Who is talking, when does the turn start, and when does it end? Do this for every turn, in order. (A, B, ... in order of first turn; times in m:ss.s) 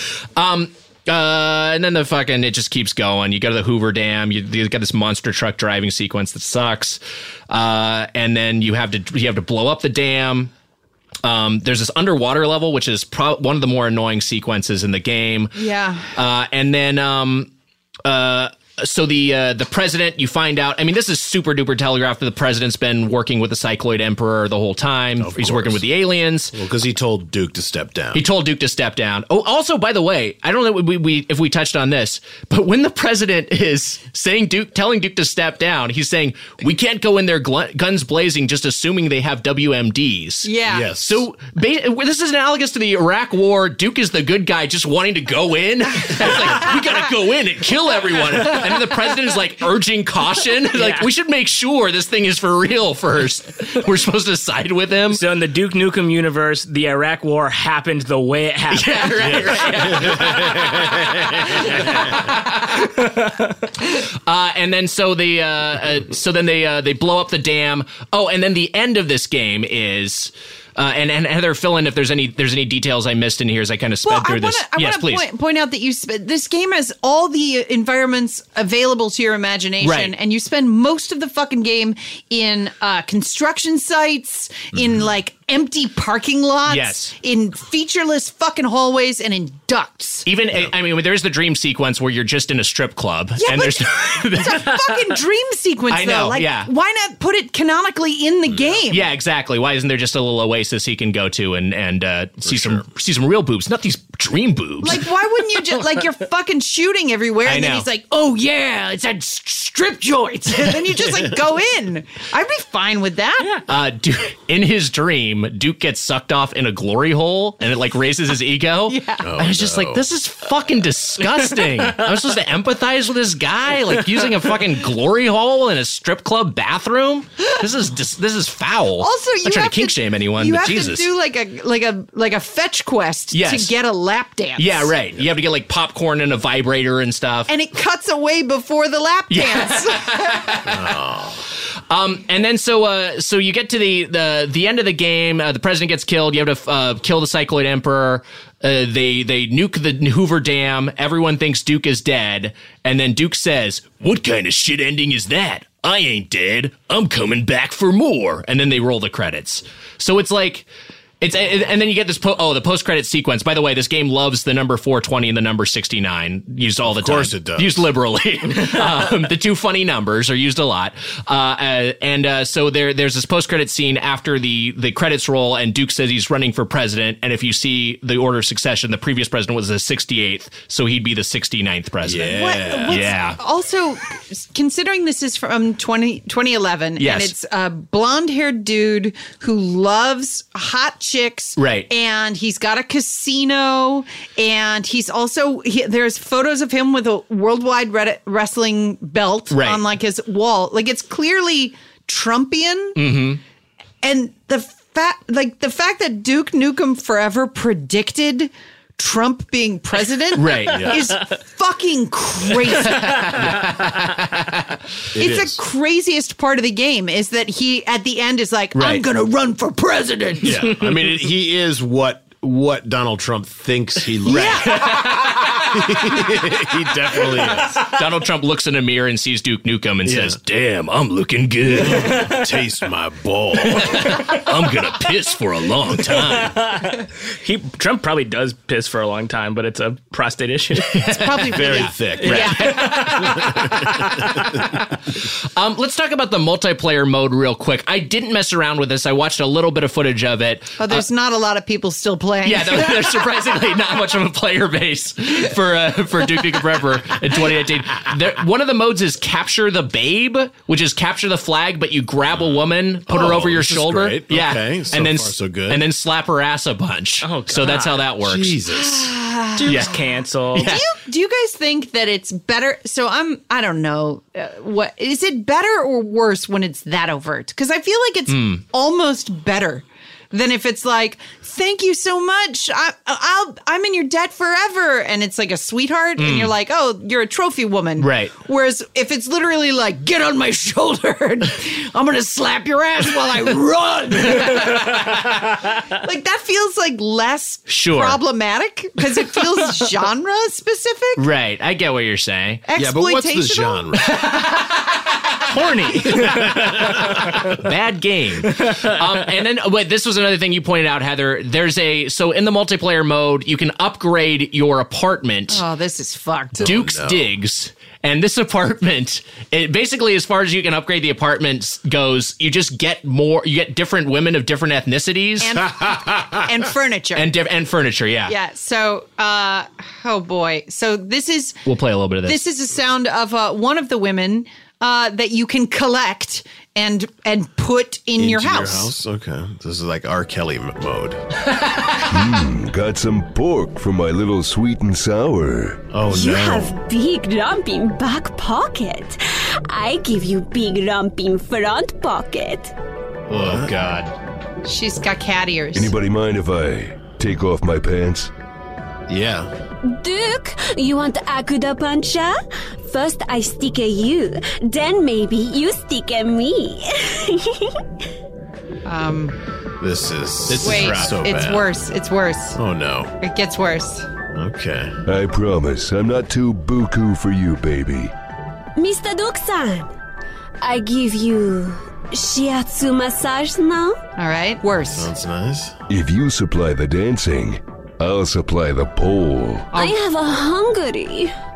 0:00.4-0:10.5 A
0:11.2-0:15.6 A
0:15.6-0:16.1 B
0:16.1-0:17.5 A
0:18.0-0:26.6 A
0:25.2-0:25.9 C
0:26.5-0:28.2 C
0:28.1-0:55.2 A
0:40.4-0:40.9 B
0:40.7-0:41.2 C
0:55.1-0:59.9 D
0:58.7-1:03.0 A
0:59.3-1:02.1 C
1:03.9-1:15.2 A
1:14.0-1:30.3 B
1:19.8-1:20.1 A
1:26.7-1:27.1 A
1:30.3-1:34.9 A
1:33.4-1:39.1 B
1:35.9-1:36.7 A
1:38.5-1:38.8 C
1:38.9-1:45.0 A
1:42.4-1:42.8 C
1:44.8-1:53.6 B
1:47.5-1:47.9 A
1:53.7-2:11.1 A
1:58.9-1:59.3 B
1:59.2-2:00.1 C
2:09.0-2:14.9 B
2:13.3-2:13.8 A
2:14.6-2:17.5 A
2:17.5-2:20.6 B
2:19.3-2:20.9 A
2:20.7-2:21.4 C
2:21.9-2:40.7 A
2:41.2-3:02.4 A
2:46.8-2:47.8 C
3:02.0-3:03.1 C
3:02.3-3:23.0 B
3:02.9-3:03.4 A
3:07.0-3:07.3 A
3:11.6-3:11.9 A
3:19.5-3:19.8 A
3:23.0-3:23.4 A
3:24.0-3:33.4 B
3:30.3-3:31.0 A
3:30.7-3:31.0 C
3:32.8-3:34.8 A
3:35.2-3:35.6 C
3:35.2-3:40.6 B
3:38.8-3:39.0 A
3:40.4-3:45.0 C
3:44.2-3:44.9 B
3:44.3-3:45.8 A
3:45.6-3:47.8 C
3:47.8-3:52.3 A
3:50.0-3:50.4 C
3:51.8-3:54.2 C
3:53.6-3:56.6 A
3:56.4-4:01.4 D
4:00.9-4:11.1 A
4:01.2-4:02.9 B
4:01.5-4:04.6 C
4:02.2-4:03.4 D
4:10.8-4:13.2 B
4:12.4-4:28.6 A
4:23.1-4:25.8 C
4:27.2-4:28.0 D
4:28.2-4:29.1 C
4:28.7-4:30.0 B
4:29.6-4:30.7 D
4:29.6-4:30.0 A
4:30.5-4:30.8 A
4:30.6-5:01.2 B
4:38.3-4:38.6 A
4:46.2-4:46.5 A
4:48.0-4:48.4 A
4:57.7-4:58.2 A
5:01.2-5:02.6 A
5:02.7-5:04.0 B
5:02.8-5:04.2 C
5:05.4-5:07.6 D
5:06.2-5:07.2 C
5:07.5-5:15.6 A
5:08.6-5:08.9 D
5:15.5-5:16.7 B
5:16.6-5:17.3 C
5:16.6-5:25.6 A
5:25.4-5:27.3 B
5:25.8-5:26.4 C
5:27.2-5:28.4 A
5:28.3-5:31.6 B
5:31.7-5:32.4 A
5:32.3-5:38.9 B
5:38.2-5:41.2 C
5:42.0-5:45.9 E
5:45.9-5:46.8 C
5:46.0-5:52.7 F
5:53.3-5:54.1 C
5:53.4-5:54.1 A
5:54.6-5:56.0 B
5:55.7-5:58.3 E
5:59.1-5:59.5 C
5:59.9-6:07.7 F
6:08.8-6:09.4 B
6:09.8-6:11.7 C
6:10.5-6:11.2 A
6:10.6-6:12.6 B
6:12.6-6:13.1 C
6:13.2-6:14.1 B
6:14.3-6:15.0 C
6:15.1-6:18.1 E
6:18.8-6:19.9 F
6:20.6-6:24.0 F
6:24.2-6:25.1 B
6:25.0-6:25.8 C
6:25.9-6:29.7 E
6:29.7-6:30.0 B
6:29.7-6:31.3 F